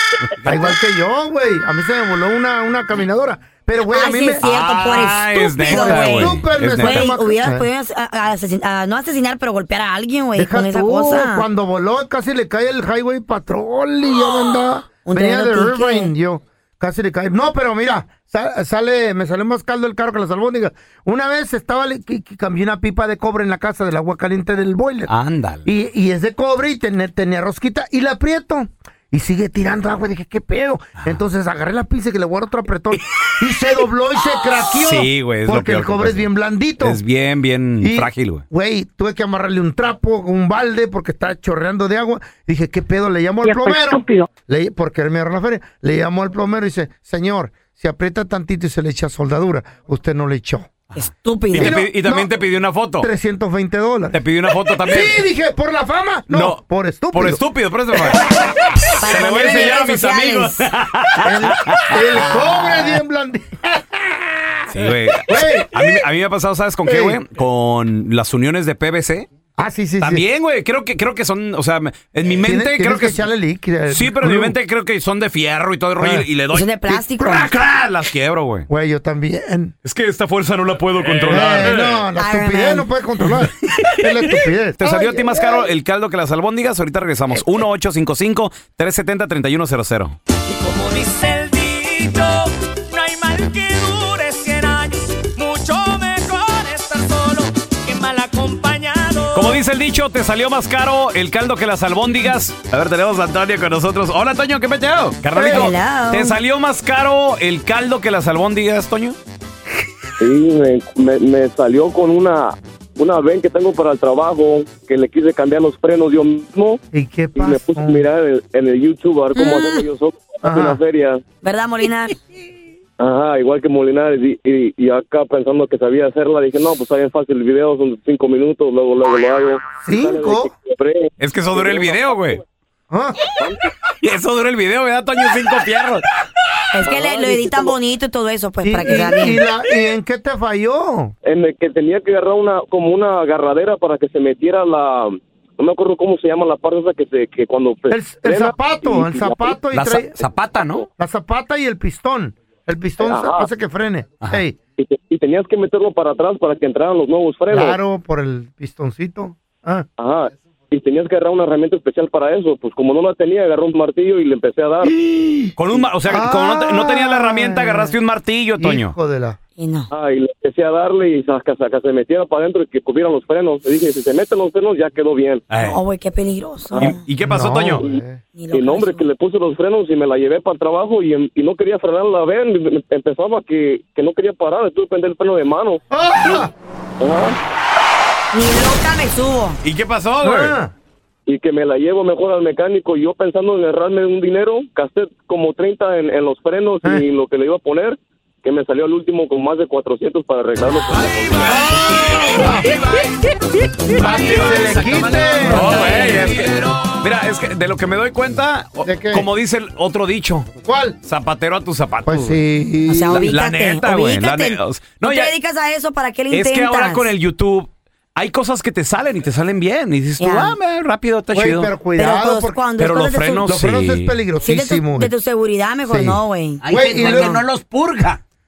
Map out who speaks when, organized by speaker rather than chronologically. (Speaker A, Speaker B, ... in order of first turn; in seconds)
Speaker A: 0.4-4.5, 5.6-7.7, 10.4-25.1, 25.6-37.0, 37.8-50.7, 51.5-52.3, 53.0-54.2, 54.9-57.4, 58.0-58.4, 61.2-66.0, 66.8-67.2, 69.6-70.2, 72.4-74.5, 76.0-76.3, 78.7-79.7, 81.3-85.7, 116.9-118.1, 120.4-120.8, 129.8-130.5, 132.9-133.2, 138.6-141.1, 147.9-150.1, 151.0-154.6, 157.5-159.9, 164.8-165.6, 166.1-167.9, 168.6-169.4, 177.2-178.2, 185.9-186.5, 190.2-190.7, 201.4-202.8, 203.9-206.1, 208.8-209.3, 210.6-211.0, 212.1-213.3, 221.3-222.6, 223.4-225.1, 225.9-227.4
Speaker B: 3.9-11.4, 15.1-16.1, 50.9-51.8, 59.0-60.6, 76.5-77.5, 82.1-82.9, 105.3-106.3, 119.4-119.8, 121.4-122.1, 136.7-139.4, 169.6-169.9, 175.6-177.0, 178.3-179.1, 188.3-189.6, 212.9-217.1, 220.2-220.6, 221.9-223.5, 224.4-227.4
Speaker C: 4.4-7.1, 25.1-25.6, 34.8-36.3, 36.8-38.4, 51.5-53.1, 54.1-55.1, 56.3-56.6, 57.1-58.4, 59.0-62.4, 64.7-69.3, 70.0-73.2, 73.9-78.7, 79.8-81.9, 84.8-90.2, 99.3-109.2, 131.2-132.4, 134.0-136.1, 149.7-150.8, 165.6-168.9, 175.5-175.8, 176.8-177.8, 189.6-190.6, 204.0-210.5, 211.0-212.4, 213.1-215.3, 216.3-221.7, 222.8-224.2, 226.6-228.2
Speaker D: 90.5-99.6
Speaker E: 110.2-116.8, 117.4-121.2, 123.0-132.4, 133.4-133.7, 136.9-137.7, 141.2-149.6, 153.0-153.5, 154.8-157.8, 160.0-164.9, 169.9-175.4, 178.5-185.8, 187.0-187.4, 191.3-201.6